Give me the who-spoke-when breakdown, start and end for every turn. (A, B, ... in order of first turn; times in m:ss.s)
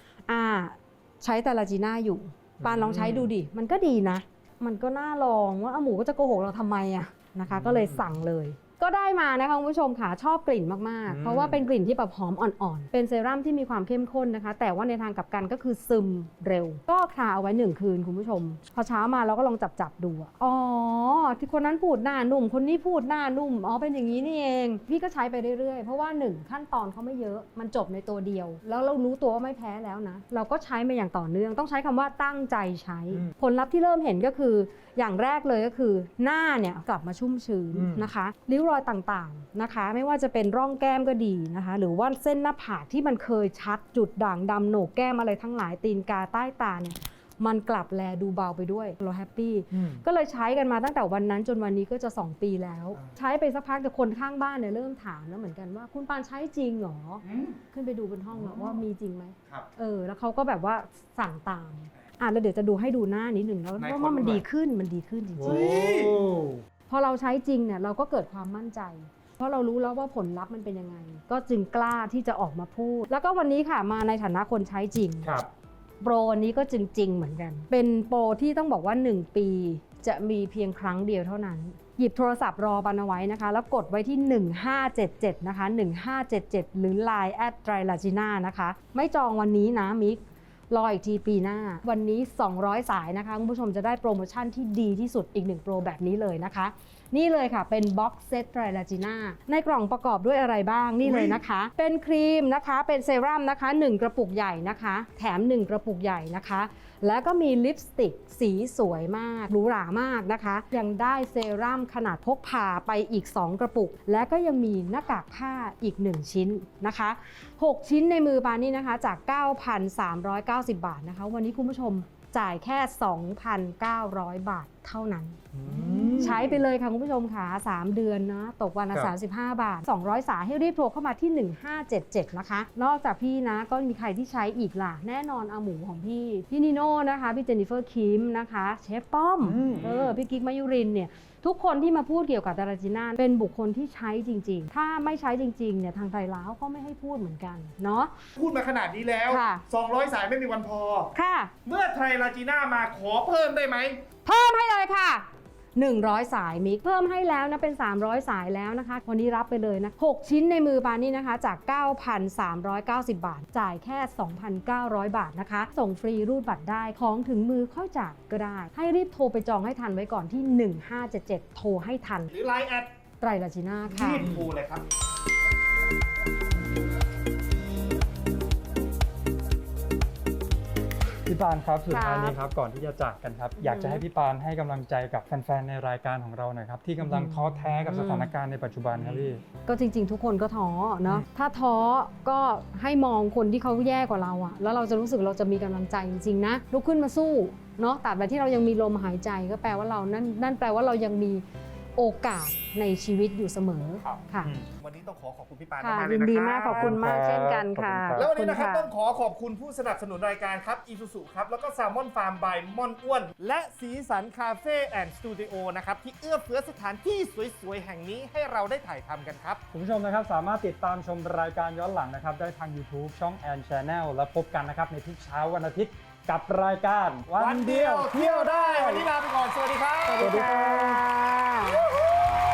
0:00.3-1:05.7 A
0:02.6-0:03.2 B
0:07.5-0:08.1 B
0:11.1-0:11.6 B
0:37.7-0:38.1 B
0:57.2-0:57.6 C
0:58.3-0:58.8 C
1:03.8-1:04.4 C
1:05.4-1:06.6 B
1:05.4-1:06.1 C
1:06.9-1:15.3 A
1:16.0-2:05.4 A
1:41.0-1:41.4 C
2:05.5-2:06.5 C
2:05.6-2:06.6 B
2:06.2-2:28.1 A
2:19.4-2:19.9 B
2:19.6-2:20.1 C
2:28.4-2:31.1 C
2:29.3-2:29.6 A
2:31.1-2:31.5 A
2:31.6-2:34.0 C
2:34.2-2:52.3 A
2:52.3-2:52.9 C
2:53.2-2:54.2 A
2:53.8-2:54.8 C
3:01.3-3:09.4 B
3:01.9-3:02.4 A
3:03.6-3:04.0 A
3:07.0-3:08.3 A
3:08.9-3:09.3 C
3:09.6-3:21.4 A
3:22.0-3:24.5 A
3:24.0-3:27.0 C
3:25.8-3:28.9 A
3:26.7-3:28.3 B
3:28.2-3:39.6 C
3:39.7-3:49.1 B
3:47.4-3:50.5 C
3:50.1-3:51.8 A
3:50.2-3:51.0 B